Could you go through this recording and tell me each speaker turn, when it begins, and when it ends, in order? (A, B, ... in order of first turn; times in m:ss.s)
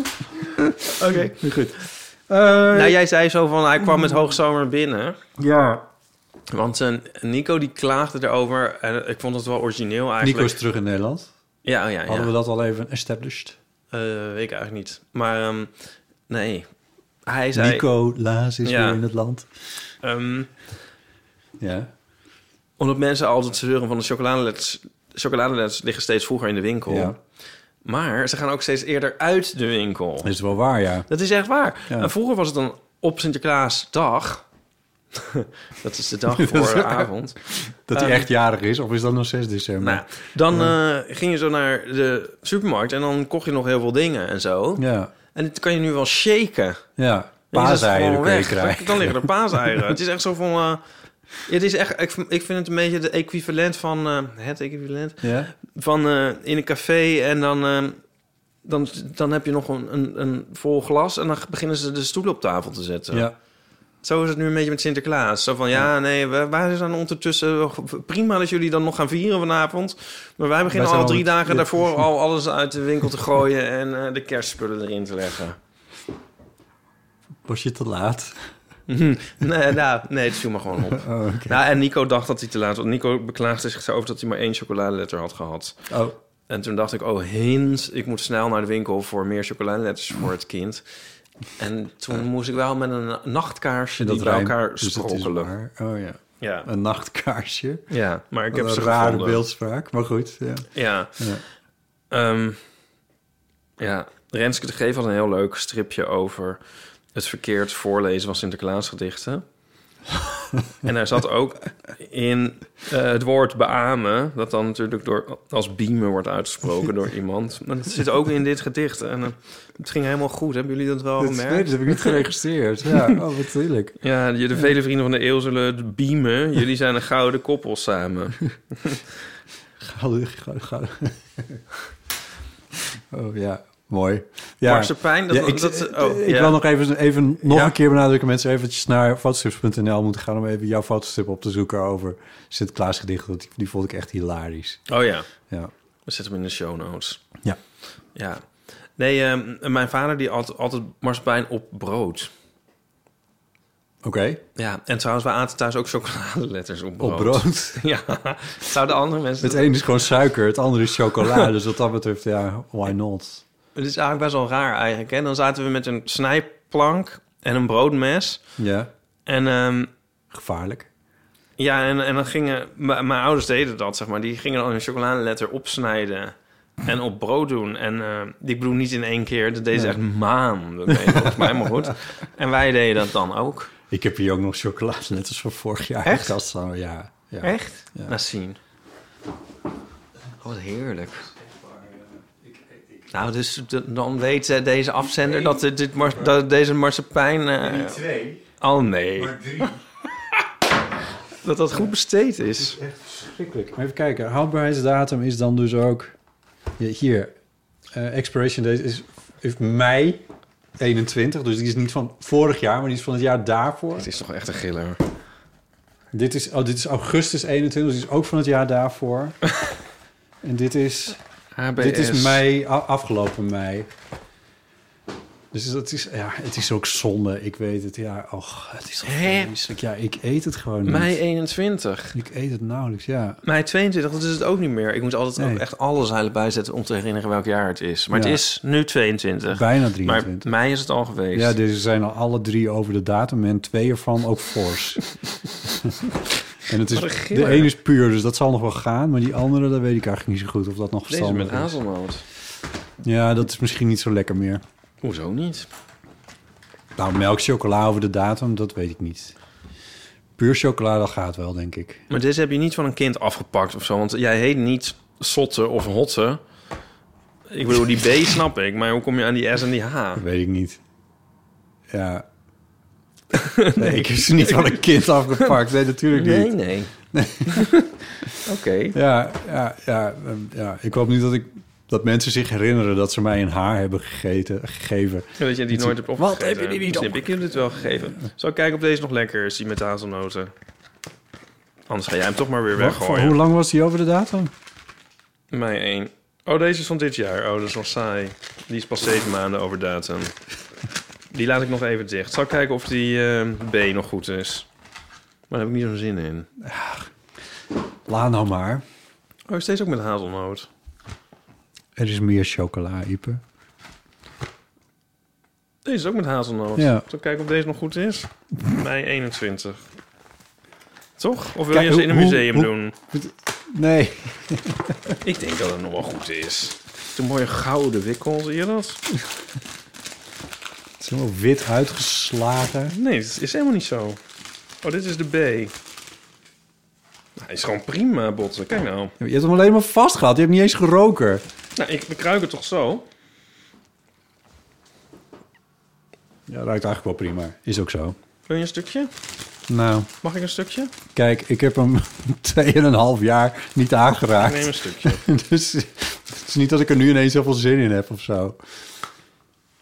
0:00.6-0:03.0 A
0:00.8-0:01.5 B
0:02.7-0:05.2 B
0:05.4-0:05.8 A
0:06.5-0:10.6 B
0:10.2-0:11.3 A
0:11.6-0:12.3 B
0:12.1-0:13.6 A
0:13.9-0:15.7 B
0:16.3-0:16.7 B
0:17.2-0:17.8 B
0:17.5-0:19.5 A
0:18.6-0:19.0 B
0:20.0-0:20.5 B
0:21.6-0:21.9 A
0:22.8-0:27.2 B
0:26.8-0:27.2 A
0:27.8-0:30.3 B
0:30.2-0:31.1 A
0:31.1-0:34.4 B
0:35.1-0:37.4 B
0:36.3-0:40.7 A
0:37.9-0:38.3 B
0:39.8-0:46.8 B
0:44.8-0:45.1 A
0:47.0-0:49.7 A
0:47.5-0:50.8 B
0:51.4-0:58.0 B
0:55.2-0:55.5 A
0:58.6-1:03.3 B
1:04.0-1:15.6 B
1:10.7-1:12.0 A
1:17.4-1:18.4 A
1:18.9-1:25.8 B
1:20.9-1:21.6 A
1:25.9-1:26.2 A
1:26.5-1:30.8 B
1:31.6-1:35.5 B
1:34.0-1:37.8 A
1:36.4-1:36.7 B
1:37.9-1:39.4 B
1:38.5-1:40.7 A
1:40.7-1:41.2 B
1:42.1-1:42.6 B
1:43.8-1:46.6 B
1:47.1-1:49.4 B
1:50.8-2:02.2 B
2:01.2-2:04.0 A
2:04.0-2:09.0 B
2:09.8-2:11.6 A
2:12.9-2:24.8 A
2:14.6-2:16.6 B
2:17.4-2:17.7 B
2:24.9-2:25.3 B
2:26.0-2:27.2 B
2:28.2-2:28.4 B
2:29.0-2:32.3 B
2:34.0-2:34.4 A
2:34.6-2:39.8 B
2:37.0-2:37.8 A
2:39.4-2:43.4 A
2:43.7-2:48.4 B
2:48.6-2:48.9 A
2:49.3-2:49.9 B
2:50.3-2:50.9 A
2:51.6-2:56.3 B
2:56.8-3:03.7 B
3:00.9-3:01.9 A
3:03.9-3:08.2 A
3:06.0-3:06.3 B
3:07.4-3:08.6 B
3:10.4-3:11.2 B
3:11.5-3:13.0 A
3:13.1-3:19.8 B
3:17.6-3:18.4 A
3:19.2-3:19.8 A
3:21.4-3:22.8 B
3:22.6-3:26.1 A
3:26.8-3:27.3 A
3:27.9-3:30.2 A
3:30.8-3:34.1 A
3:34.0-3:35.0 B
3:36.1-3:39.4 A
3:40.4-3:41.2 A
3:41.6-3:42.4 B
3:41.8-3:43.9 A
3:45.5-3:51.2 A
3:49.0-3:49.7 B
3:50.8-3:52.1 B
3:52.1-3:53.4 A
3:53.4-4:01.5 B
3:55.4-3:55.6 A
3:58.1-3:58.4 A
3:59.5-4:00.4 A
4:01.3-4:05.0 A
4:05.6-4:06.1 A
4:06.7-4:11.8 A
4:06.9-4:07.7 B
4:11.1-4:12.2 B
4:13.0-4:14.6 A
4:15.0-4:15.7 B
4:17.0-4:19.3 A
4:20.4-4:22.0 A
4:22.1-4:26.4 B
4:27.5-4:30.2 B
4:30.2-4:30.8 A
4:31.9-4:32.2 A
4:33.3-4:34.8 B
4:33.8-4:36.5 A
4:36.1-4:36.9 B
4:37.1-4:37.7 A
4:37.5-4:37.9 B
4:38.4-4:39.0 B
4:38.9-4:47.9 A
4:45.4-4:50.5 B
4:51.9-4:53.4 B
4:52.7-4:54.5 A
4:55.5-5:00.3 B
5:01.3-5:04.7 B
5:05.5-5:06.5 B
5:06.6-5:07.1 A
5:08.1-5:08.8 A
5:09.5-5:10.7 B
5:12.0-5:13.4 A
5:15.8-5:19.8 B
5:16.8-5:17.0 A
5:21.2-5:22.9 B
5:21.7-5:25.2 A
5:25.2-5:29.0 B
5:31.0-5:32.9 A
5:32.9-5:34.2 B
5:34.8-5:35.7 B
5:37.4-5:39.1 B
5:39.2-5:41.4 A
5:41.8-5:43.0 B
5:46.5-5:48.2 A
5:48.5-5:49.1 B
5:49.7-5:50.1 A
5:50.2-5:50.9 B
5:51.1-5:58.6 A
5:54.3-5:55.2 B